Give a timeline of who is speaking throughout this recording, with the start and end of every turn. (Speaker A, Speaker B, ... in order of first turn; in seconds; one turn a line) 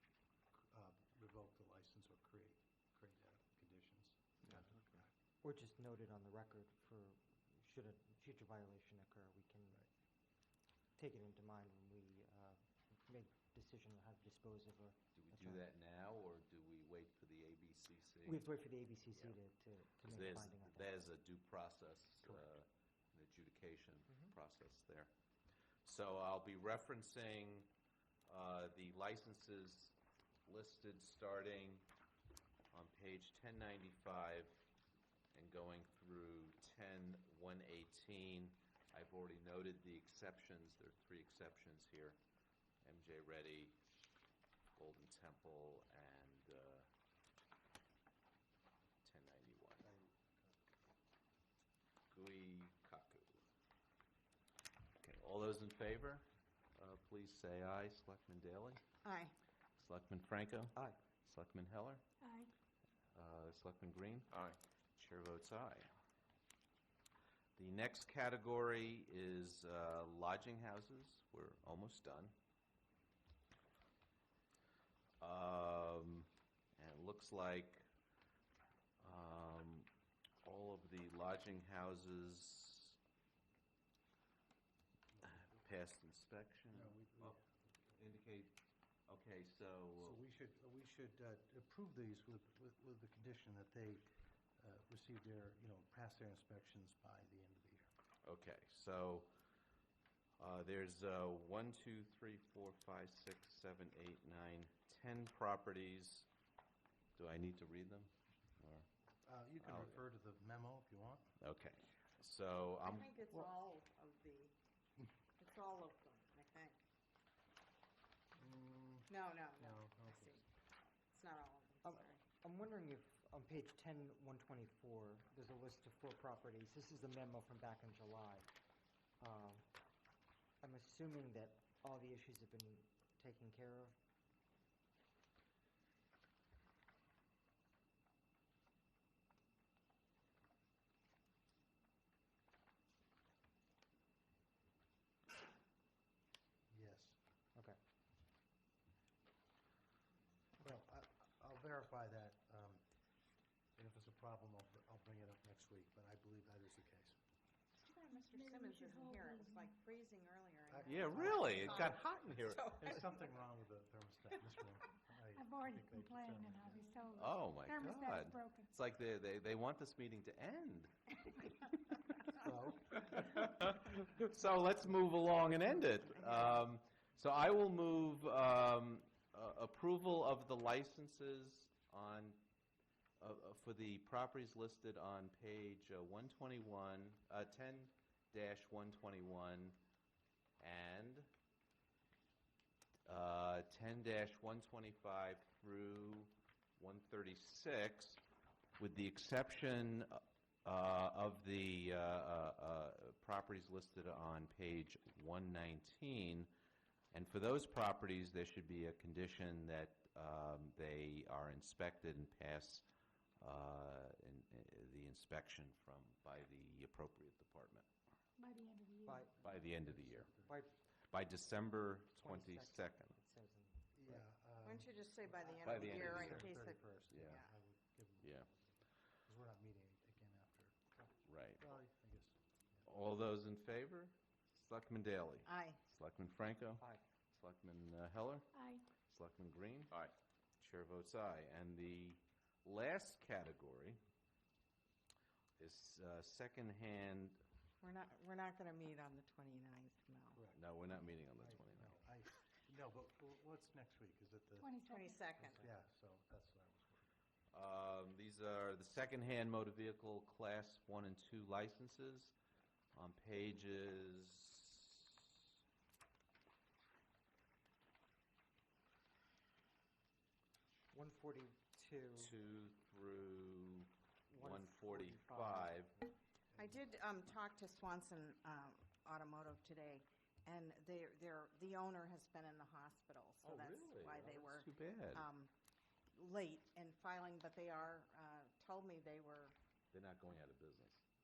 Speaker A: 0.5-5.1
Speaker B: 5.4-9.9
Speaker B: 11.0-15.7
Speaker C: 15.2-18.5
Speaker B: 18.2-21.0
Speaker C: 20.0-25.1
Speaker C: 25.9-27.7
Speaker C: 28.3-31.9
Speaker C: 32.7-34.6
Speaker C: 35.3-42.2
Speaker C: 42.8-43.8
Speaker C: 44.8-46.9
Speaker C: 49.0-49.8
Speaker A: 49.8-50.9
Speaker C: 52.1-53.4
Speaker C: 55.0-58.8
Speaker D: 59.0-59.4
Speaker C: 59.8-62.0
Speaker B: 60.8-61.0
Speaker E: 62.2-62.5
Speaker C: 63.1-65.9
Speaker C: 67.6-72.3
Speaker C: 75.2-77.8
Speaker C: 79.0-79.9
Speaker C: 80.4-83.0
Speaker A: 85.2-85.6
Speaker C: 85.2-87.4
Speaker A: 86.7-87.6
Speaker C: 87.9-90.2
Speaker A: 90.0-94.1
Speaker A: 94.6-97.9
Speaker C: 98.2-99.3
Speaker C: 100.4-106.3
Speaker C: 107.2-108.9
Speaker A: 109.2-111.3
Speaker C: 109.6-110.0
Speaker C: 111.4-113.3
Speaker D: 112.8-114.6
Speaker D: 115.4-116.8
Speaker A: 118.3-120.4
Speaker D: 119.1-120.5
Speaker D: 121.1-122.2
Speaker B: 121.8-128.5
Speaker B: 129.2-129.7
Speaker B: 130.6-134.0
Speaker A: 146.7-147.2
Speaker A: 150.6-152.8
Speaker A: 153.8-157.2
Speaker D: 157.8-163.2
Speaker E: 158.0-159.8
Speaker A: 160.7-162.1
Speaker C: 160.8-162.8
Speaker A: 162.7-167.0
Speaker E: 165.3-168.7
Speaker C: 167.2-182.4
Speaker A: 172.3-173.2
Speaker C: 183.2-189.8
Speaker C: 190.6-191.3
Speaker C: 193.1-198.2
Speaker C: 198.8-206.5
Speaker C: 207.1-212.8
Speaker C: 213.4-217.9
Speaker E: 218.4-219.3
Speaker B: 219.1-219.3
Speaker C: 219.4-220.3
Speaker A: 219.4-220.6
Speaker B: 220.4-220.8
Speaker C: 221.1-223.2
Speaker B: 222.2-224.3
Speaker A: 223.9-232.9
Speaker D: 224.6-227.5
Speaker C: 225.6-226.6
Speaker C: 227.1-227.4
Speaker C: 228.2-228.5
Speaker C: 231.3-231.7
Speaker C: 232.9-244.0
Speaker D: 235.4-235.8
Speaker B: 236.8-237.0
Speaker E: 238.5-238.9
Speaker C: 245.6-247.4
Speaker D: 247.8-250.4
Speaker A: 250.3-250.7
Speaker C: 250.6-252.0
Speaker A: 251.3-254.7
Speaker E: 254.6-255.3
Speaker D: 254.8-255.7
Speaker A: 255.4-257.1
Speaker C: 257.5-262.4
Speaker C: 262.9-265.3
Speaker B: 270.9-272.3
Speaker C: 272.2-275.9
Speaker B: 274.3-275.9
Speaker D: 276.6-285.5
Speaker C: 283.4-285.3
Speaker D: 286.1-289.6
Speaker C: 289.9-291.0